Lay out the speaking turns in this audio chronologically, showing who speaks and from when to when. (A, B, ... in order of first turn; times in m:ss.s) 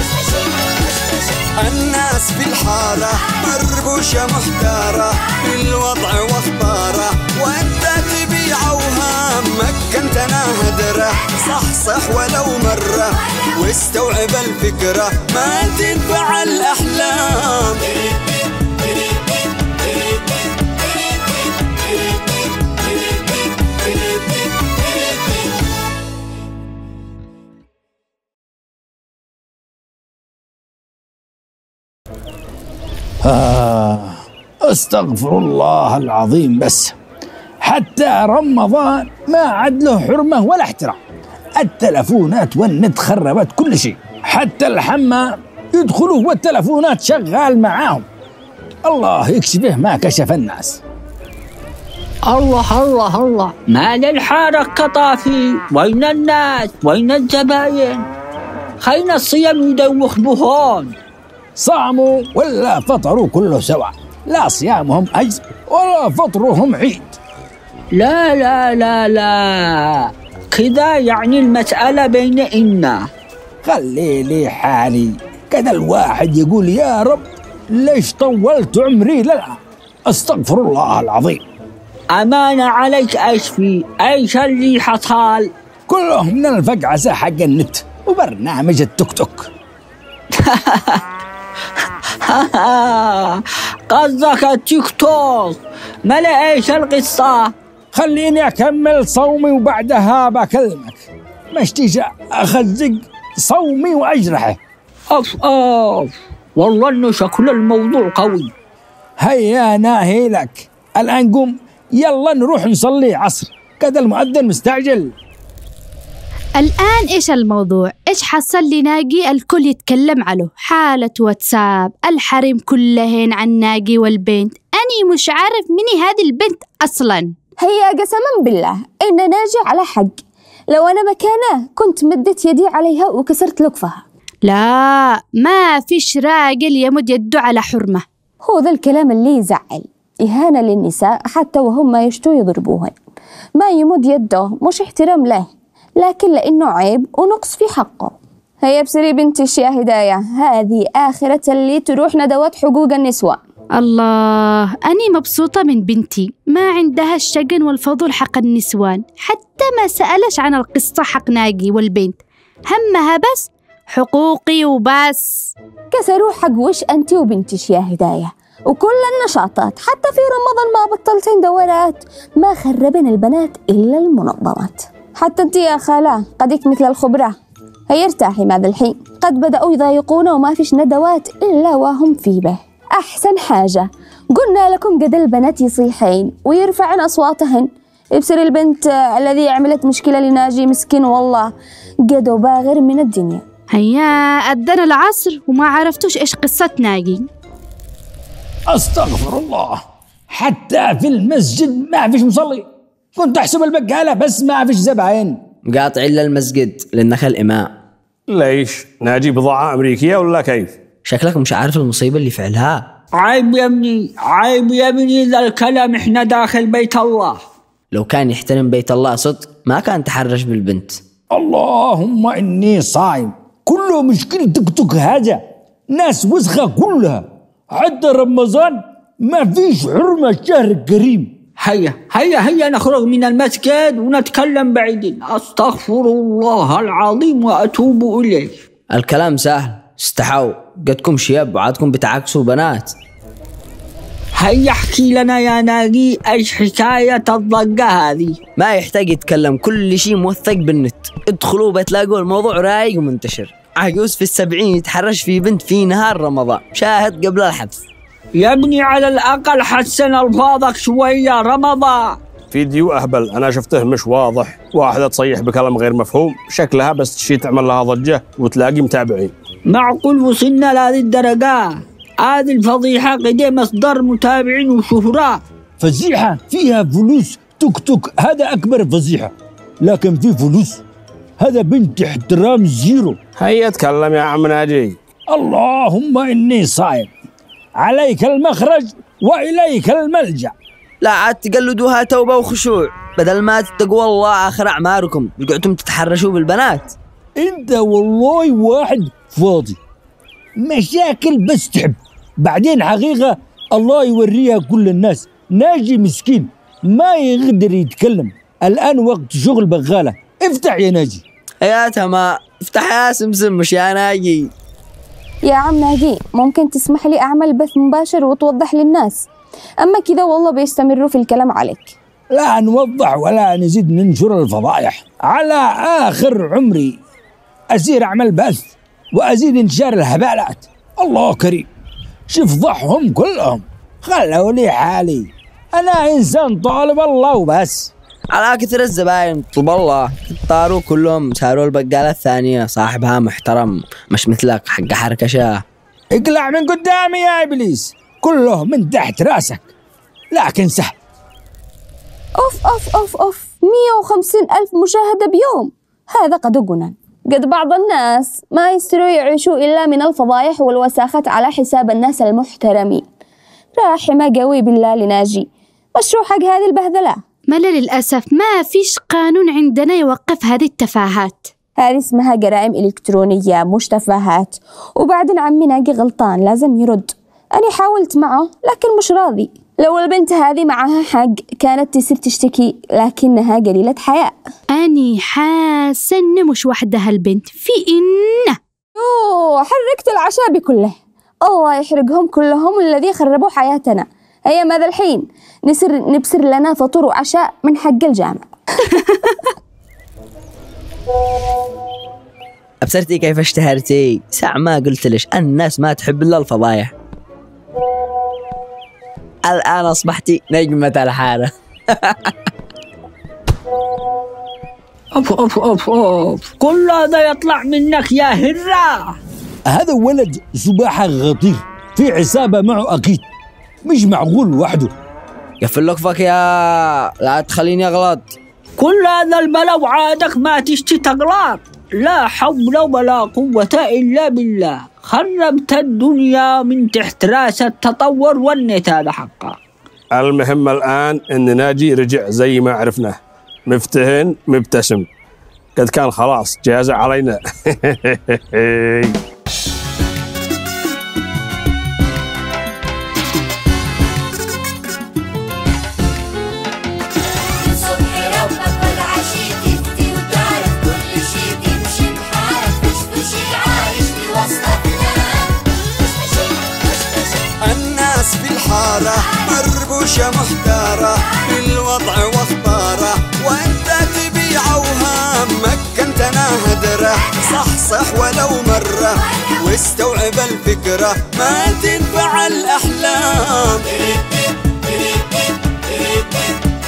0:01.5-0:18.0 A
0:33.2-0:37.0 B
0:37.6-0:41.0 B
0:41.6-0:48.0 B
0:48.8-0:50.8 B
0:52.3-0:58.1 C
0:58.8-1:00.9 C
1:01.6-1:07.1 B
1:07.9-1:13.1 C
1:13.6-1:21.4 B
1:22.2-1:25.5 C
1:25.9-1:29.5 B
1:30.4-1:31.0 C
1:32.2-1:37.5 C
1:37.9-1:44.6 B
1:45.1-1:48.5 C
1:49.2-1:55.2 B
1:56.6-2:07.3 D
2:07.6-2:10.2 E
2:10.7-2:14.0 E
2:14.4-2:18.0 D
2:18.4-2:22.9 E
2:23.6-2:33.4 E
2:33.8-2:42.2 D
2:42.7-2:45.5 D
2:45.9-2:57.4 E
2:57.9-3:11.5 E
3:12.1-3:13.4 E
3:13.7-3:17.3 D
3:18.7-3:25.4 B
3:25.6-3:27.7 F
3:28.3-3:30.7 G
3:31.0-3:32.9 F
3:33.2-3:37.4 C
3:37.9-3:41.0 F
3:41.3-3:51.3 B
3:51.6-3:58.6 C
3:58.9-4:02.9 F
4:04.3-4:08.4 C
4:08.6-4:17.9 F
4:18.4-4:22.2 C
4:22.5-4:29.3 G
4:29.7-4:35.4 C
4:35.8-4:40.8 B
4:41.4-4:43.2 B
4:43.4-4:45.0 G
4:45.3-4:47.1 B
4:47.8-4:50.5 B
4:51.0-4:56.9 F
4:57.4-4:59.8 B
5:00.6-5:11.2 B
5:11.6-5:14.5 F
5:15.4-5:19.3 E
5:19.8-5:21.9 E
5:22.3-5:27.0 B
5:27.7-5:31.7 B
5:32.3-5:37.9 B
5:38.3-5:45.6 F
5:46.1-5:49.7 B
5:50.3-5:50.9 B
5:52.4-6:03.1 E
6:03.8-6:07.2 E
6:07.5-6:11.5 D
6:11.8-6:24.4 E
6:24.7-6:28.6 D
6:29.0-6:39.3 E
6:42.8-6:46.9 F
6:49.4-6:52.3 F
6:55.1-6:59.2 C
6:59.7-7:03.2 B
7:03.8-7:04.9 B
7:05.6-7:08.3 F
7:08.8-7:19.6 C
7:20.1-7:25.1 G
7:25.8-7:29.1 G
7:37.6-7:44.6 C
7:47.4-8:04.2 A